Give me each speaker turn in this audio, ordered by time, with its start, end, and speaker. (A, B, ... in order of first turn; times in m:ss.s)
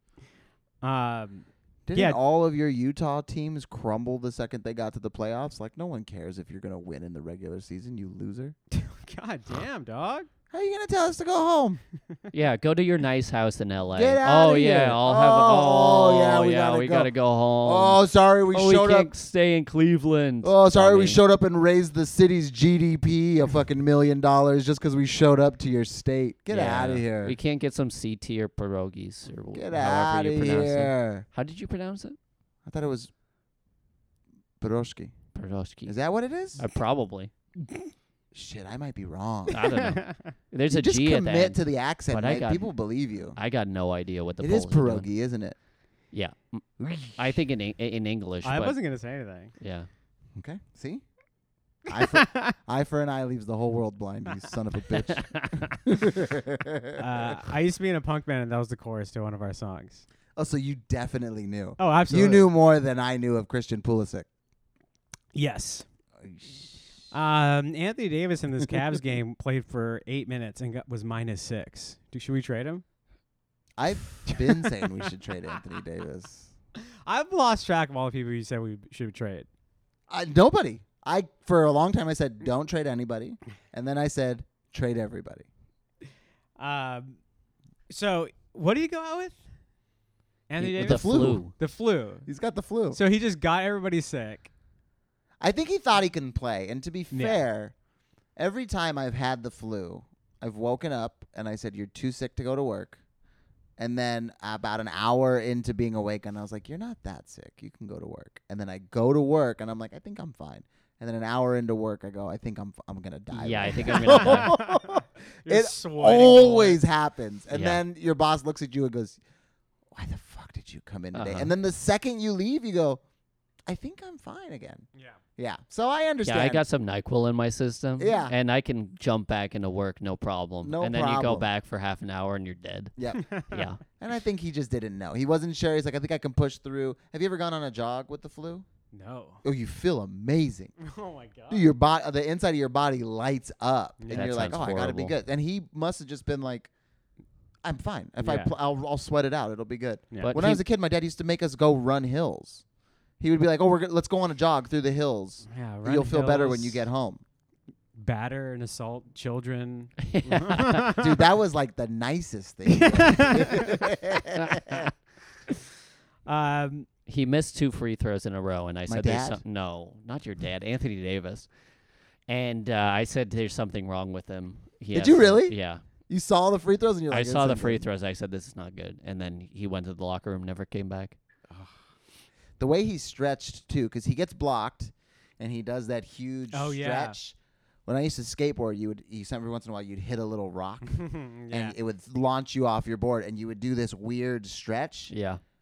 0:00.8-0:02.2 A
0:01.9-0:08.6 B
0:08.7-0:10.3 A
0:10.5-0:11.8 B
0:12.3-0:21.2 C
0:13.9-0:17.1 B
0:17.6-0:19.1 B
0:20.4-0:27.4 B
0:26.5-0:32.2 C
0:29.5-0:31.2 B
0:32.7-0:33.1 B
0:34.6-0:35.2 B
0:35.4-0:36.0 C
0:35.9-0:36.6 B
0:36.6-0:37.3 C
0:38.3-0:39.6 B
0:39.5-0:42.7 C
0:39.7-0:40.3 A
0:40.7-0:43.4 B
0:43.4-0:45.1 C
0:44.4-0:45.6 B
0:46.1-0:48.8 C
0:46.8-0:47.2 B
0:48.4-0:49.5 A
0:49.6-0:49.9 C
0:50.4-0:51.0 B
0:51.9-0:57.0 B
0:52.0-0:52.5 A
0:55.1-0:55.7 C
0:57.0-1:00.0 A
1:00.4-1:04.3 B
1:01.8-1:02.5 A
1:05.3-1:05.9 A
1:06.2-1:06.9 B
1:07.1-1:12.8 A
1:13.8-1:16.5 B
1:14.3-1:14.8 A
1:17.1-1:19.5 A
1:20.1-1:25.5 B
1:26.6-1:27.2 A
1:27.9-1:29.4 A
1:30.5-1:32.3 A
1:30.6-1:31.5 C
1:30.8-1:31.5 B
1:32.3-1:33.0 B
1:32.9-1:34.5 A
1:35.4-1:37.7 B
1:37.1-1:37.4 A
1:38.4-1:43.0 B
1:43.8-1:59.2 B
1:53.3-1:54.5 C
1:53.9-1:56.8 A
1:57.5-1:57.8 C
1:59.9-2:03.0 B
2:01.1-2:01.5 C
2:03.7-2:06.6 B
2:06.2-2:12.9 C
2:08.0-2:08.4 B
2:10.6-2:11.5 B
2:13.0-2:13.2 B
2:13.2-2:13.6 A
2:13.4-2:13.8 C
2:13.9-2:18.7 B
2:18.9-2:19.4 A
2:19.4-2:20.8 B
2:20.8-2:21.7 A
2:21.5-2:26.7 B
2:24.0-2:24.3 A
2:24.1-2:25.1 C
2:27.6-2:32.6 B
2:28.2-2:28.5 A
2:30.2-2:30.6 C
2:33.2-2:37.2 B
2:35.5-2:36.8 A
2:38.0-2:41.1 A
2:40.0-2:40.9 C
2:40.8-2:44.9 B
2:42.7-2:43.8 A
2:46.3-2:46.9 A
2:47.1-2:51.5 C
2:48.9-2:49.4 B
2:52.3-2:55.8 C
2:54.9-2:55.6 B
2:56.1-2:57.9 B
2:57.1-3:01.2 C
3:02.6-3:15.1 B
3:06.5-3:07.2 A
3:10.9-3:11.8 A
3:15.1-3:15.4 C